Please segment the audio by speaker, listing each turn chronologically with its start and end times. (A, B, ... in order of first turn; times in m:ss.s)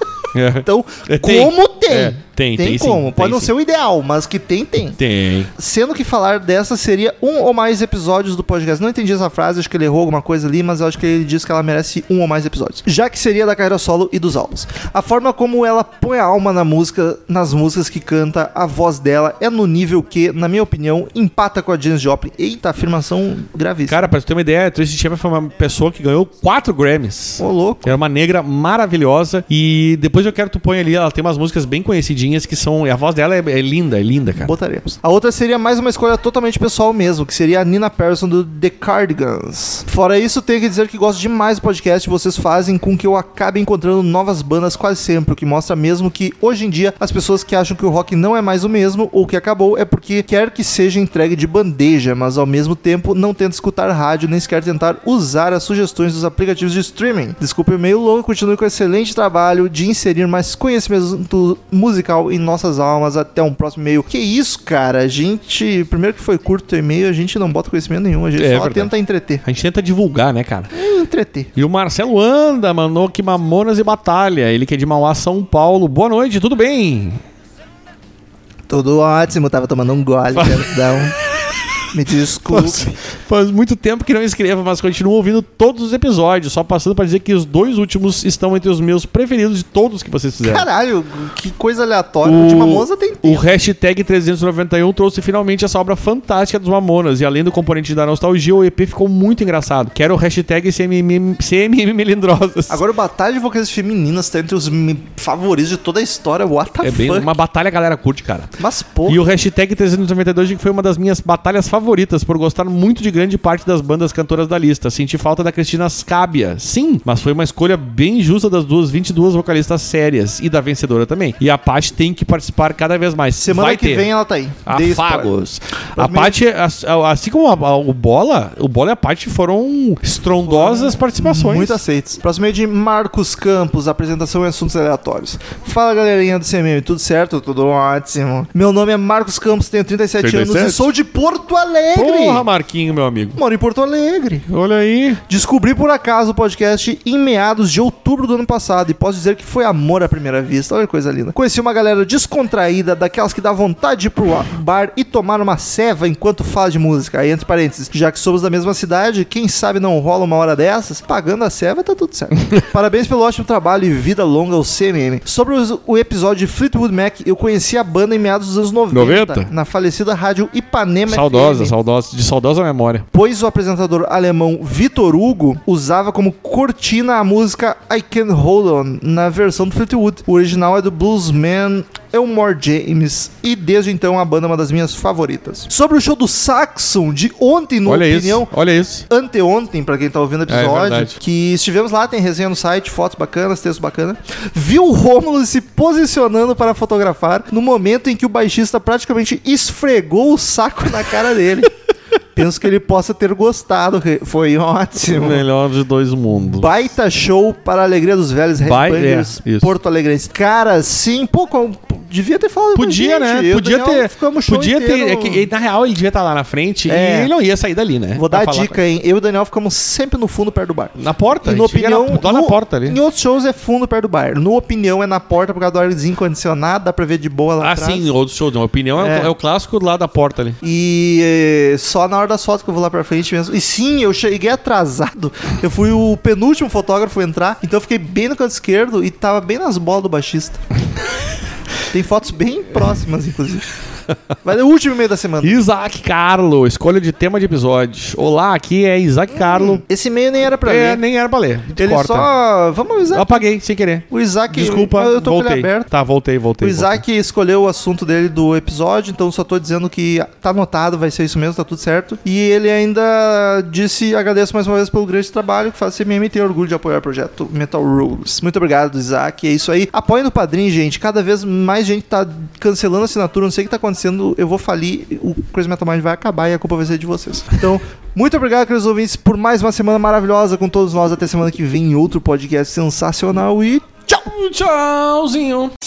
0:00.3-0:03.5 A
0:00.6-0:05.0 B
0:05.0-0:05.5 A
0:05.6-0:24.0 B
0:23.9-0:34.5 A
0:27.4-0:28.0 B
0:34.4-1:09.4 B
1:08.4-1:08.9 A
1:09.4-1:10.7 A
1:10.7-1:11.5 B
1:11.6-1:17.2 A
1:18.7-1:21.1 B
1:20.3-1:21.0 A
1:21.9-1:23.0 B
1:22.5-1:30.7 A
1:30.4-1:33.5 B
1:32.2-1:42.8 A
1:42.7-1:47.3 B
1:46.8-2:04.1 A
1:48.6-1:49.2 B
2:03.4-2:05.3 B
2:04.7-2:11.8 A
2:06.0-2:06.4 B
2:10.4-2:22.5 B
2:20.2-2:20.9 A
2:21.9-2:23.4 A
2:23.4-2:24.5 B
2:24.5-2:25.2 A
2:25.3-2:51.7 B
2:48.9-2:49.5 A
2:51.1-2:53.0 A
2:53.1-3:08.5 B
3:07.9-3:09.0 A
3:09.1-3:21.7 B
3:10.5-3:11.2 A
3:22.4-3:25.4 B
3:25.1-3:26.7 A
3:26.5-3:35.5 B
3:28.6-3:29.7 A
3:32.7-3:38.8 A
3:36.9-3:37.3 B
3:38.2-3:48.1 B
3:41.0-3:43.0 A
3:47.6-3:50.6 A
3:49.0-3:49.3 B
3:50.6-4:00.6 B
4:01.9-4:03.7 B
4:04.4-4:05.6 B
4:05.4-4:09.8 A
4:09.3-4:11.0 B
4:10.7-4:12.3 A
4:11.8-4:13.5 B
4:13.1-4:17.0 A
4:14.1-4:15.9 B
4:16.6-4:44.3 B
4:44.2-4:45.7 A